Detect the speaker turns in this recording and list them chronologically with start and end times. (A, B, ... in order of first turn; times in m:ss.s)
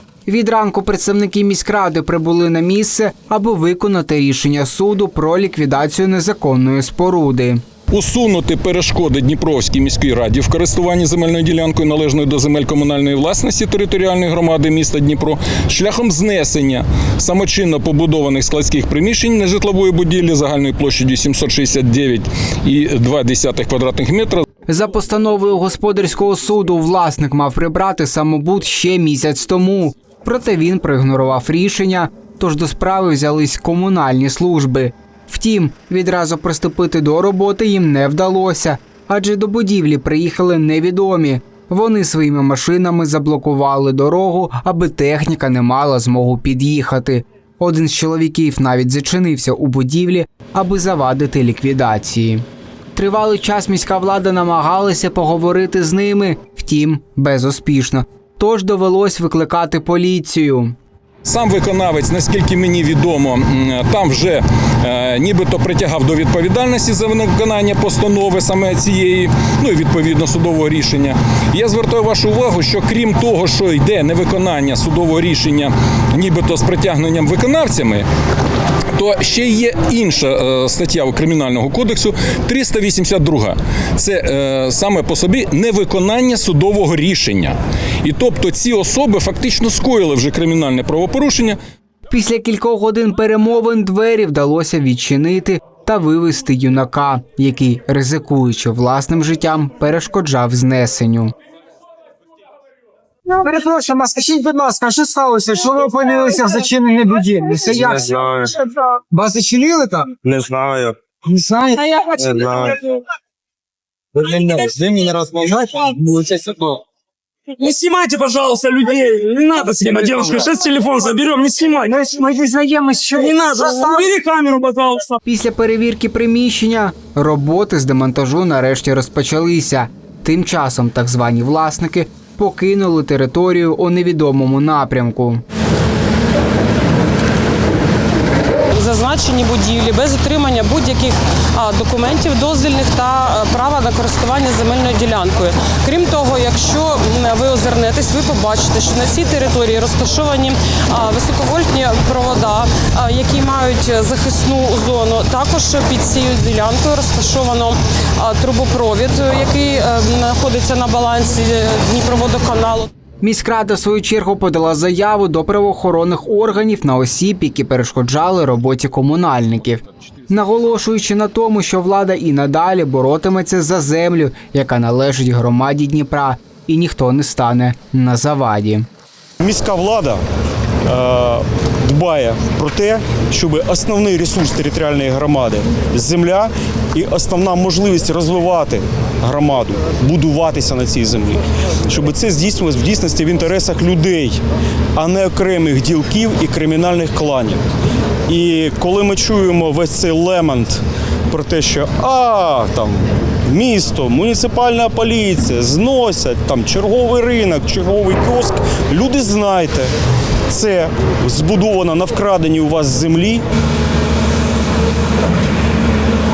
0:00.3-0:07.6 A
0:07.9-0:24.4 B
0:24.7-1:00.8 A
1:01.2-1:18.0 B
1:19.0-1:31.6 B
1:32.1-1:41.3 A
1:43.3-1:50.1 C
1:47.7-1:48.5 D
1:50.2-1:51.0 D
1:51.3-1:52.0 C
1:52.2-1:52.8 D
1:54.4-1:54.7 D
1:54.6-1:55.9 C
1:55.8-1:56.8 E
1:57.5-2:02.3 E
2:02.1-2:04.0 C
2:03.2-2:05.2 E
2:05.3-2:15.4 A
2:18.7-2:42.9 F
2:43.2-2:58.9 A
2:59.4-3:00.2 G
3:00.9-3:14.4 G
3:15.0-3:17.6 G
3:18.3-3:29.9 G
3:30.5-3:33.4 G